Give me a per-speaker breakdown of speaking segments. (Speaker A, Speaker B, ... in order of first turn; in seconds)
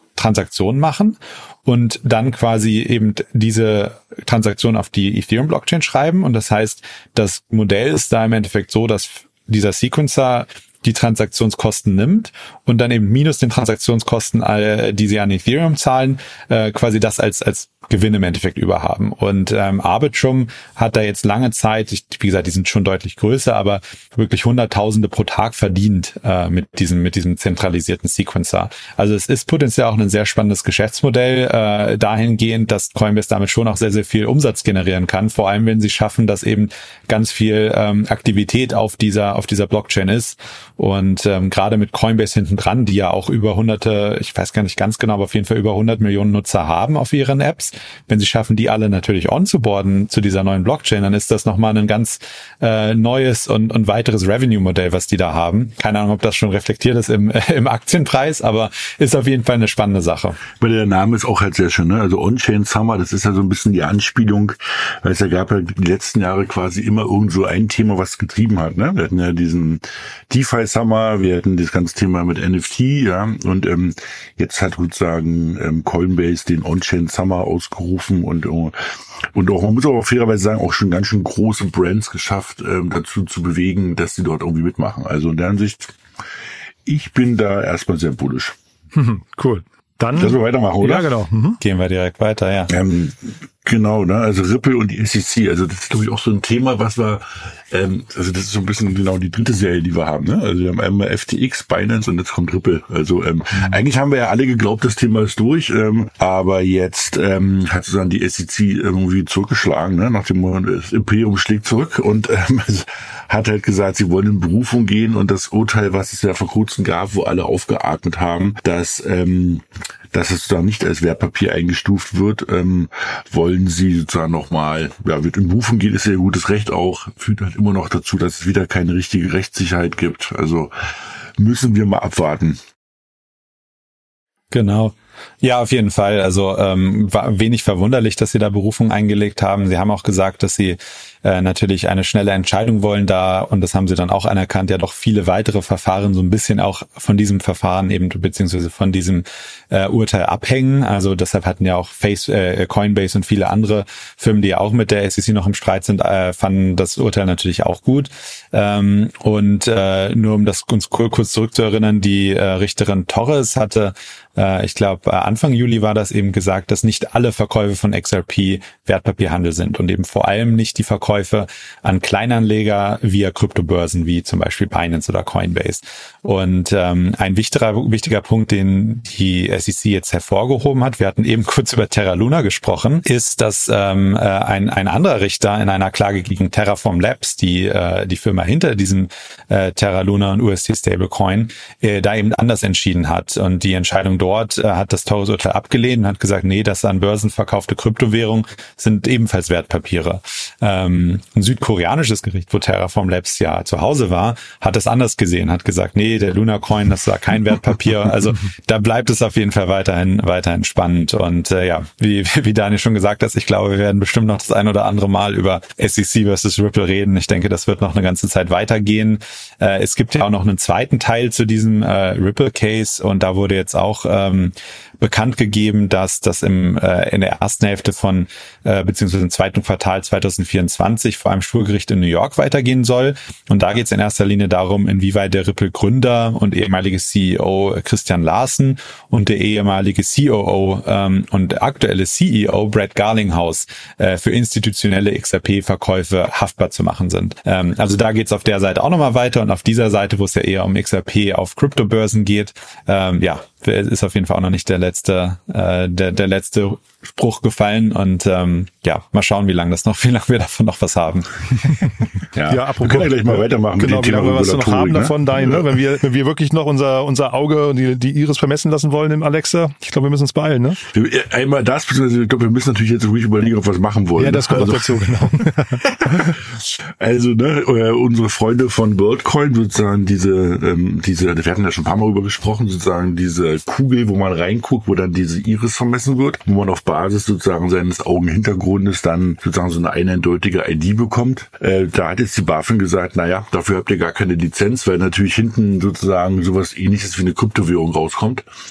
Speaker A: 0.2-60.4, 91.6-92.7, 134.5-261.8
Speaker B: 60.6-78.8, 79.3-86.0, 86.8-88.5, 90.2-91.1, 92.7-130.7, 131.4-132.6, 262.3-265.7, 270.9-275.2, 275.9-276.3, 277.0-298.5
Speaker C: 88.9-91.6, 262.5-270.8, 274.2-276.3